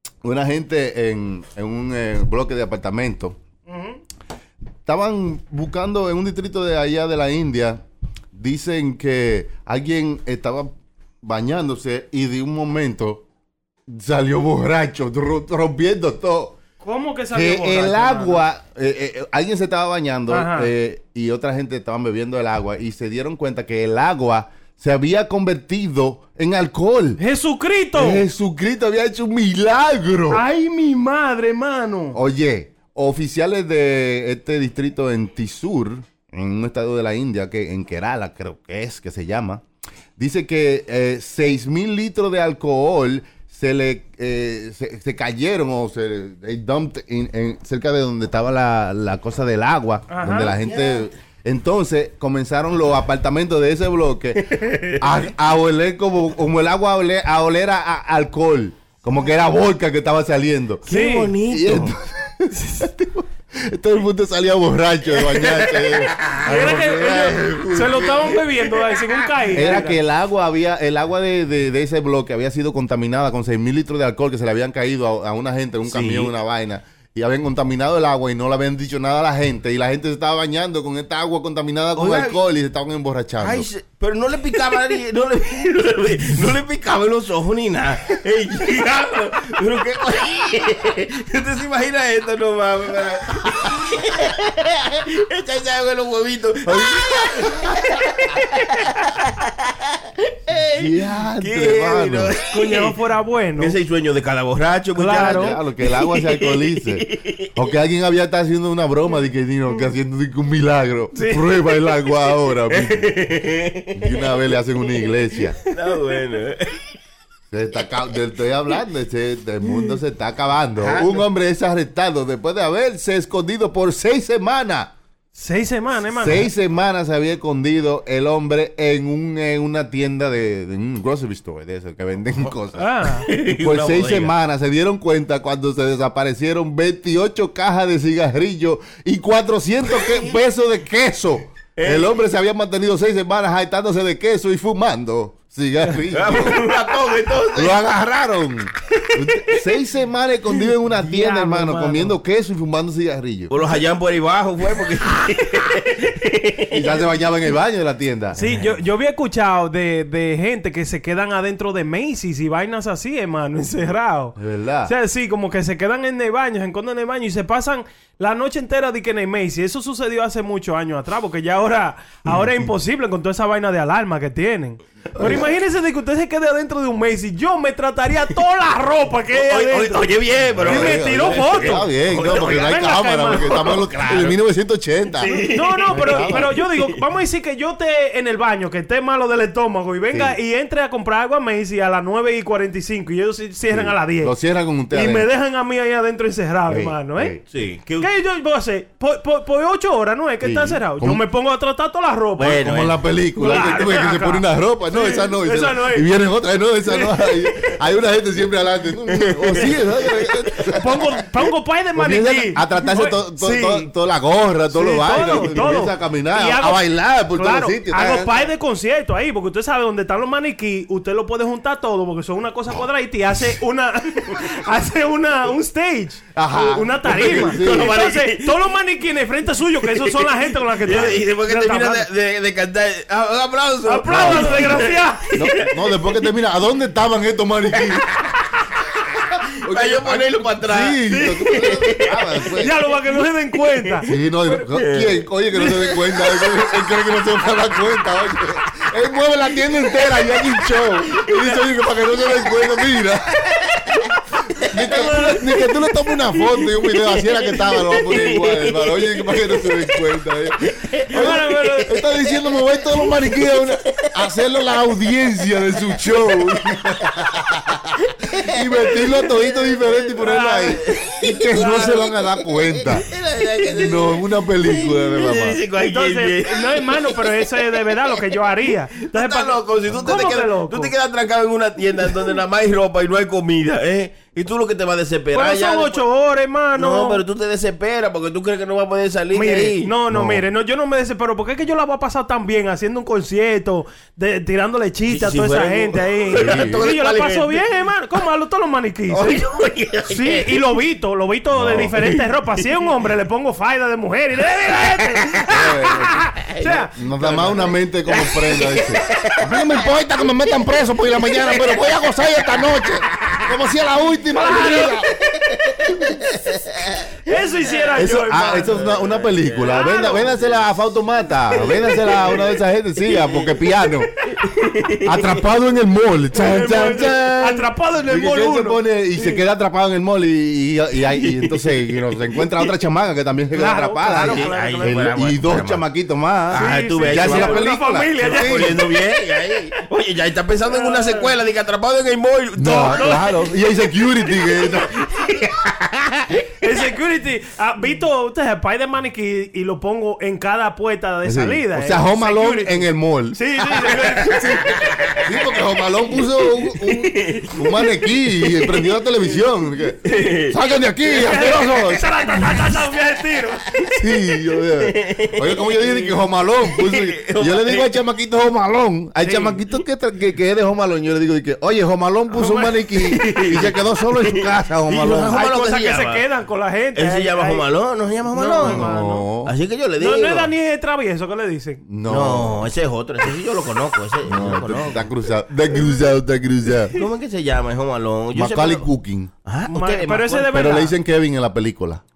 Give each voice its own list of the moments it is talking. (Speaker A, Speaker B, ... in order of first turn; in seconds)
Speaker A: 0.2-3.4, 4.9-7.8, 8.3-10.7, 11.2-13.2, 13.9-16.6, 17.3-27.2, 27.9-30.4, 32.1-39.6, 40.2-60.9, 61.4-68.4, 69.5-83.7, 96.7-97.8, 100.8-102.3, 105.1-113.3, 113.9-115.6, 117.5-124.9, 126.2-146.8, 147.5-153.6, 156.7-158.4, 164.4-164.9, 175.2-175.5, 180.5-186.5, 190.1-190.4, 193.7-195.3, 196.7-197.4, 200.4-201.2, 202.5-211.1, 211.9-218.5, 226.3-228.0, 234.1-238.1, 239.6-242.8, 244.1-253.5, 254.6-273.1, 273.7-275.6, 290.1-290.4, 296.4-296.9, 301.5-301.9, 305.5-306.3, 306.9-315.1, 318.0-324.1, 325.0-338.9, 342.6-344.9, 351.2-354.3, 355.2-362.1, 363.9-375.4, 378.6-379.5, 381.8-382.7, 384.2-387.0, 388.3-389.3, 390.5-392.0
Speaker B: 3.7-4.0, 16.8-18.4, 20.3-20.7, 27.2-28.2, 30.3-32.2, 50.1-50.6, 60.9-61.3, 66.4-70.0, 102.5-103.8, 105.0-105.6, 111.2-111.5, 125.3-126.5, 132.8-133.3, 150.9-152.2, 158.4-180.1, 180.6-183.8, 185.2-194.3, 194.9-197.4, 198.0-202.7, 203.3-206.1, 206.9-207.8, 210.7-213.9, 214.7-232.1, 233.8-235.3, 242.6-244.6, 254.8-255.4, 261.1-262.0, 270.2-270.8, 275.8-280.9, 285.3-287.2, 289.3-299.4, 300.1-306.9, 314.3-315.0, 317.2-318.9, 319.7-320.2, 326.4-328.8, 333.5-335.1, 336.5-338.9, 340.7-341.3, 342.9-343.3, 346.6-354.9, 361.2-363.9, 369.2-369.5, 372.3-372.7, 375.2-377.6, 378.3-379.3, 380.0-381.8, 389.7-390.9
Speaker C: 50.6-51.1, 54.5-55.1, 60.9-62.0, 65.2-66.4, 75.9-76.3, 82.0-82.4, 83.4-103.0, 103.6-107.5, 112.7-114.3, 115.6-116.9, 120.8-121.3, 133.3-134.3, 139.9-140.3, 141.8-142.2, 146.1-147.8, 149.0-149.6, 153.5-156.9, 158.4-158.8, 179.3-184.4, 185.2-187.0, 197.5-198.1, 202.4-203.0, 209.1-210.3, 215.4-215.7, 227.1-228.7, 229.8-236.3, 237.7-242.6, 243.8-244.1, 244.7-246.9, 249.7-251.6, 253.6-254.1, 254.6-255.7, 256.3-264.2, 265.6-267.4, 268.0-286.0, 286.7-289.9, 295.1-297.6, 299.1-300.7, 301.7-302.6, 304.7-305.5, 306.4-309.6, 311.2-313.5, 314.5-318.0, 318.6-320.6, 321.5-325.4, 331.1-332.7, 334.1-335.9, 336.5-343.4, 344.4-346.4, 353.9-355.3, 356.2-359.1, 360.0-360.6, 364.6-367.9, 372.9-376.2, 376.9-378.9, 379.4-380.5, 382.1-385.1, 386.9-388.9, 389.4-390.7